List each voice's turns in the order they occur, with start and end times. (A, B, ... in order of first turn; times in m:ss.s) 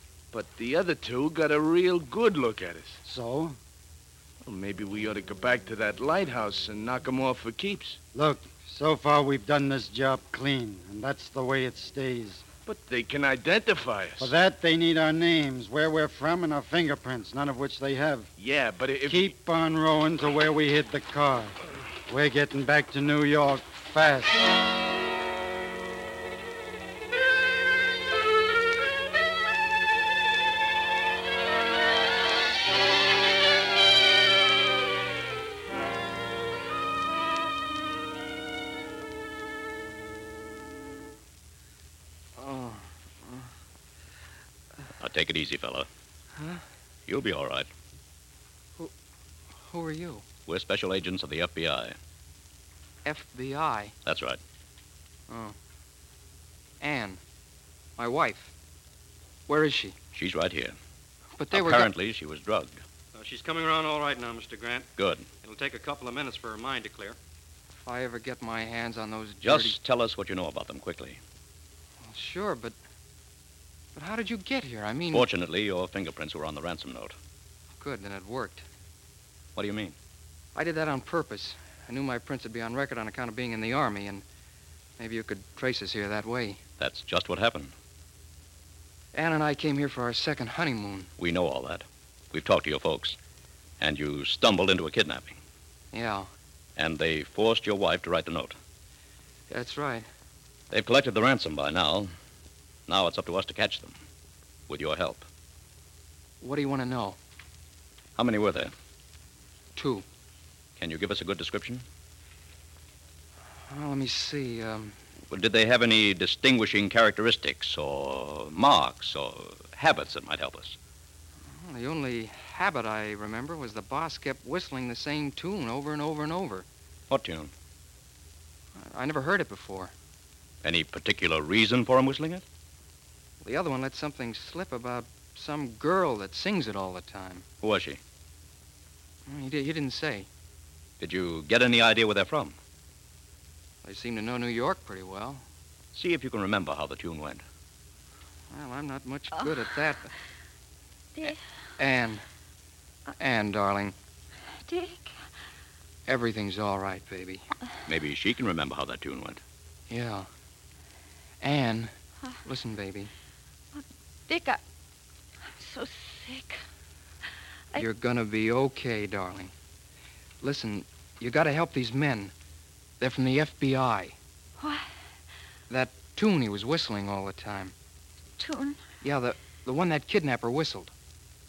0:00.3-0:03.0 A
0:03.0-0:03.6 B
0:04.4-0:08.0 A
0:08.1-0:12.4 B
0:12.6-0:14.3 A
0:14.2-0:18.3 B
0:18.4-0:19.3 A
0:19.1-0:24.4 B
0:42.4-0:42.8 C
0:45.0-0:45.9 D
0:47.1-0:47.7 D
0:49.6-0:50.2 C
0:50.4-0:52.0 D
0:53.0-0:53.9 C
0:54.0-0:54.4 D
0:55.3-0:55.5 C
0:56.8-0:57.2 C
0:58.0-0:58.5 C
0:59.5-1:00.0 C
1:00.1-1:00.8 D
1:01.4-1:01.9 C
1:01.5-1:02.8 D
1:03.1-1:04.9 E
1:05.0-1:05.3 D
1:05.4-1:07.2 E
1:07.8-1:09.8 C
1:09.4-1:11.2 D
1:12.0-1:12.8 C
1:13.9-1:15.2 C
1:15.1-1:17.2 D
1:17.8-1:18.6 C
1:19.6-1:19.9 D
1:20.5-1:24.2 C
1:25.0-1:26.6 C
1:26.8-1:27.7 D
1:29.1-1:31.1 C
1:31.2-1:33.2 D
1:33.8-1:35.4 D
1:35.9-1:36.3 C
1:36.8-1:38.6 D
1:39.5-1:40.1 C
1:40.7-1:42.1 D
1:42.9-1:43.9 D
1:44.7-1:45.3 D
1:46.4-1:47.2 C
1:48.2-1:48.7 D
1:49.7-1:50.0 C
1:50.8-1:51.8 D
1:53.7-1:55.0 C
1:55.3-2:00.8 D
2:01.5-2:06.6 C
2:07.1-2:07.5 D
2:08.7-2:09.9 C
2:10.6-2:12.4 D
2:13.4-2:17.4 C
2:17.6-2:18.0 D
2:19.2-2:20.3 C
2:21.0-2:22.5 D
2:23.8-2:25.4 C
2:25.9-2:27.4 D
2:28.5-2:30.1 C
2:31.8-2:32.2 C
2:33.2-2:33.9 C
2:34.6-2:35.1 F
2:36.1-2:37.4 C
2:37.9-2:39.4 D
2:39.9-2:40.3 C
2:41.4-2:41.9 C
2:42.4-2:43.1 C
2:43.8-2:44.6 F
2:45.6-2:46.6 F
2:47.8-2:49.5 C
2:50.4-2:52.3 C
2:53.0-2:54.2 C
2:54.6-2:54.9 F
2:55.7-2:57.7 C
2:58.4-2:58.8 F
2:59.0-3:00.9 C